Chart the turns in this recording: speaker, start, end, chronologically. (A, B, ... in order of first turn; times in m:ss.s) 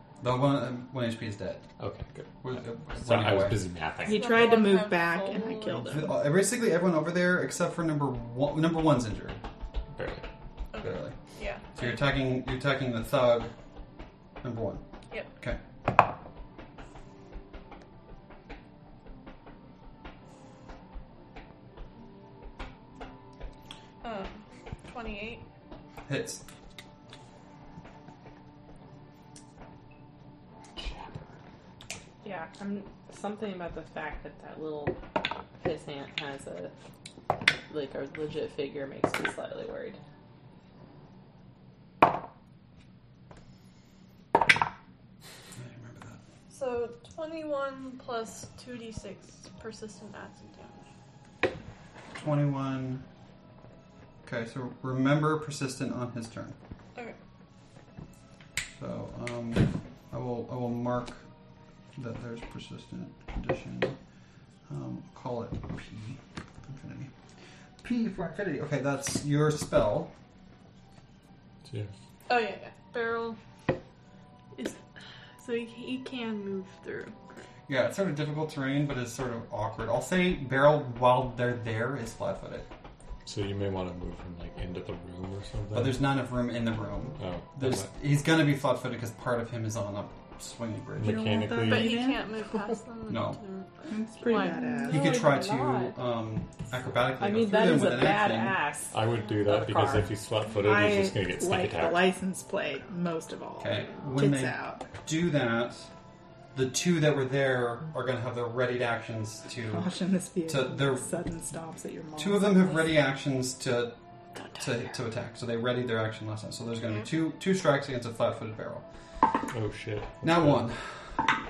0:00.2-0:01.6 A
0:01.8-0:04.5 B
0:02.4-0:03.6 A
0:04.0-0:05.9 C
0:04.0-0:06.2 D
0:05.8-0:09.4 A
0:09.9-0:10.2 B
0:10.7-0:12.0 C
0:10.8-0:13.5 A
0:14.4-0:14.8 A
0:24.0-0:25.4 C
0:26.1-0:26.4 A
0:30.8-0:31.3 B
0:32.2-0:35.0 E
0:35.6-0:36.7 E
0:37.7-0:40.0 E
0:45.6-0:46.2 A
0:46.5-0:50.9 C
0:52.1-0:53.0 A
0:54.2-0:56.6 A
0:58.7-1:01.3 A
1:01.9-1:04.0 A
1:04.7-1:07.1 A
1:07.8-1:10.1 A
1:11.6-1:11.9 B
1:12.3-1:13.4 C
1:14.5-1:14.8 C
1:15.4-1:17.4 C
1:17.7-1:22.7 A
1:23.2-1:26.1 B
1:25.7-1:31.3 A
1:27.2-1:27.9 B
1:31.0-1:32.0 B
1:31.0-1:32.3 D
1:31.7-1:35.0 C
1:33.1-1:33.4 A
1:33.9-1:35.3 D
1:34.7-1:36.0 E
1:34.9-1:38.6 A
1:37.2-1:40.1 E
1:38.9-1:42.1 B
1:40.5-1:44.8 D
1:43.6-1:45.9 A
1:46.5-1:49.9 A
1:49.6-1:52.8 D
1:50.5-1:51.1 A
1:52.2-1:54.0 A
1:54.6-1:58.8 A
1:59.5-2:00.6 B
2:00.2-2:01.2 A